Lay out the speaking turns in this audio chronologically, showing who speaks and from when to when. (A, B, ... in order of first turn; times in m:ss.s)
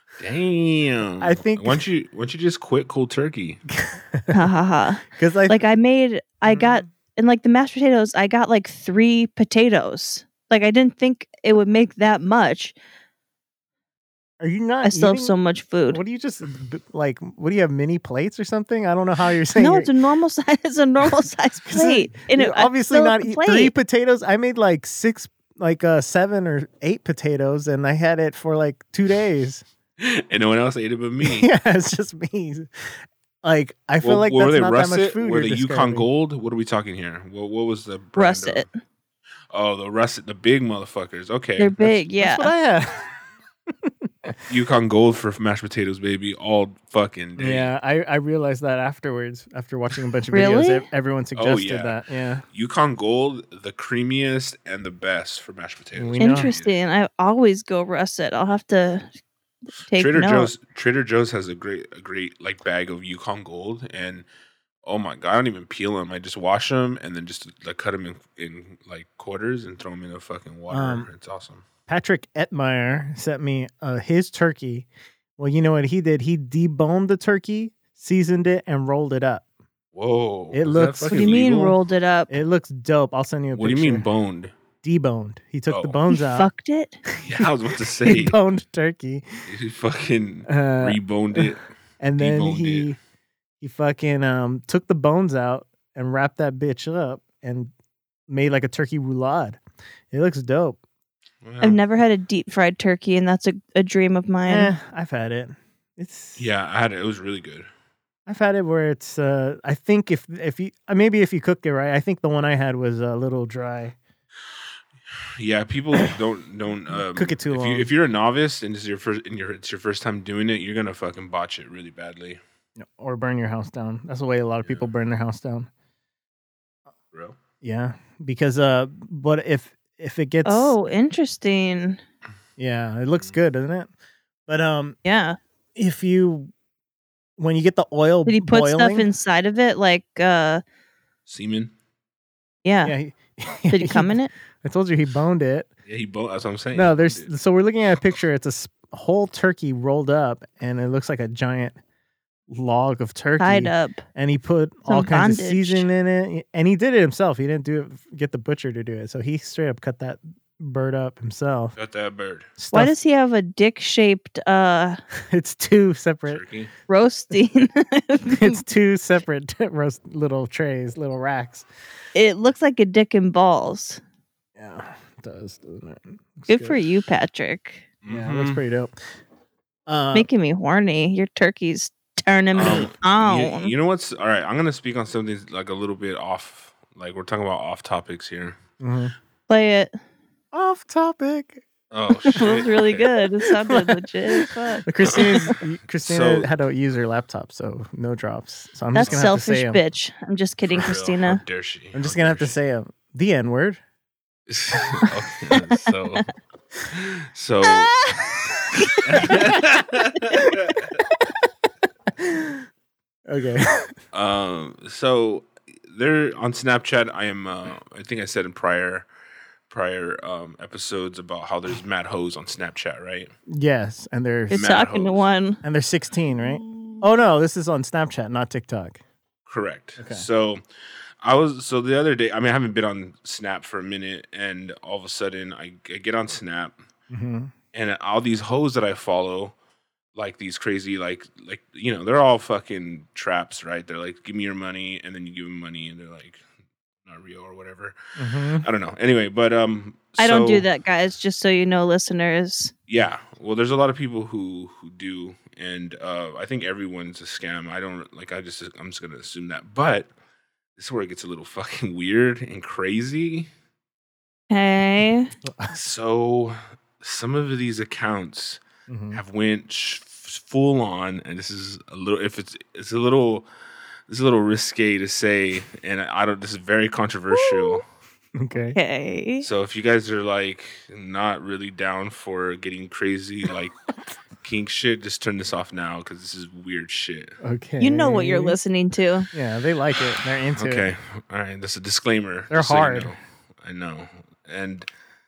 0:00.2-0:03.6 A
0:01.2-0:01.8 B
0:03.8-0:04.4 B
0:04.3-0:12.7 C
0:05.1-0:05.6 B
0:06.4-0:06.8 B
0:14.4-0:15.3 B
0:14.8-0:16.0 C
0:15.9-0:19.9 B
0:19.5-0:23.7 C
0:21.7-0:29.6 B
0:30.0-0:31.5 A
0:31.2-0:32.7 B
0:33.4-0:36.1 B
0:34.0-0:38.6 A
0:38.2-0:38.7 C
0:39.5-0:41.9 A
0:41.6-0:42.5 C
0:41.8-0:43.1 B
0:43.8-0:44.4 B
0:44.5-0:47.7 A
0:47.4-0:52.4 B
0:50.3-0:50.9 C
0:51.3-0:52.0 A
0:52.5-0:56.7 A
0:56.0-0:56.6 B
0:56.2-0:59.1 C
0:59.9-1:00.5 C
0:59.9-1:04.3 A
1:04.8-1:11.6 A
1:10.7-1:11.1 B
1:11.9-1:14.9 B
1:15.4-1:19.4 B
1:19.9-1:21.8 A
1:20.5-1:21.6 B
1:21.1-1:22.3 C
1:22.3-1:24.0 B
1:23.5-1:24.5 A
1:24.8-1:26.5 B
1:25.7-1:26.0 A
1:26.1-1:27.0 C
1:27.2-1:28.4 A
1:28.0-1:29.2 B
1:29.5-1:32.9 A
1:30.5-1:33.0 B
1:33.6-1:37.7 B
1:38.3-1:39.6 B
1:40.1-1:40.8 B
1:41.4-1:41.8 A
1:41.6-1:44.7 C
1:44.5-1:46.4 B
1:46.4-1:47.7 A
1:48.3-1:54.0 B
1:55.4-2:02.4 A
1:56.9-1:57.9 B
2:02.8-2:05.7 B
2:07.1-2:07.4 A
2:07.6-2:10.7 B
2:10.4-2:12.0 C
2:12.6-2:13.9 B
2:14.5-2:15.0 B
2:15.0-2:15.4 C
2:15.7-2:16.5 B
2:17.4-2:19.1 B
2:18.3-2:20.6 C
2:21.3-2:21.7 A
2:22.6-2:22.9 C
2:22.8-2:25.7 B
2:23.7-2:24.3 C
2:25.9-2:27.3 A
2:26.7-2:31.8 B
2:32.5-2:41.7 B
2:33.4-2:34.0 C
2:34.9-2:35.9 C
2:41.8-2:42.5 A
2:42.6-2:42.9 B
2:42.7-2:45.0 C
2:45.3-2:46.4 B
2:46.3-2:46.7 A
2:46.9-2:48.6 C
2:48.3-2:51.6 B
2:52.1-2:54.0 C
2:54.6-2:56.8 B
2:56.5-2:57.8 C
2:58.0-2:58.6 A
2:58.1-2:59.0 B
2:59.9-3:00.3 B
3:00.1-3:03.7 C
3:02.5-3:08.6 A
3:08.8-3:09.1 B
3:09.5-3:09.9 C
3:10.5-3:11.6 B
3:11.9-3:13.1 A
3:12.4-3:15.6 C
3:13.4-3:19.8 B
3:15.0-3:15.5 A
3:16.0-3:16.5 A
3:18.9-3:21.4 C
3:19.0-3:19.3 A
3:20.7-3:22.6 A
3:21.9-3:23.8 B
3:24.5-3:26.3 A
3:26.9-3:28.0 A
3:27.6-3:29.0 C
3:29.0-3:31.0 A
3:32.2-3:32.6 B
3:33.2-3:33.9 B
3:34.1-3:39.1 A
3:39.7-3:43.3 A
3:43.5-3:44.6 B
3:44.5-3:45.6 C
3:44.5-3:45.2 A
3:45.6-3:49.0 B
3:46.7-3:47.0 A
3:49.4-3:50.6 A
3:50.0-3:50.2 B
3:51.2-3:56.8 A
3:57.1-3:57.5 B
3:57.7-3:59.6 A
4:00.1-4:06.4 A
4:07.0-4:08.0 A
4:08.2-4:08.7 B
4:08.5-4:10.6 A
4:10.2-4:12.7 C
4:12.9-4:20.1 A
4:20.8-4:23.5 A
4:24.5-4:25.3 C
4:25.4-4:25.8 B
4:25.7-4:28.6 A
4:28.9-4:29.2 B
4:29.1-4:33.5 A
4:34.1-4:37.9 A
4:38.4-4:38.8 B
4:38.7-4:39.4 C
4:39.4-4:43.7 A
4:44.4-4:47.4 A
4:47.4-4:48.6 B
4:47.8-4:49.3 C
4:49.3-4:50.9 B
4:50.5-4:54.9 A
4:52.5-4:53.1 B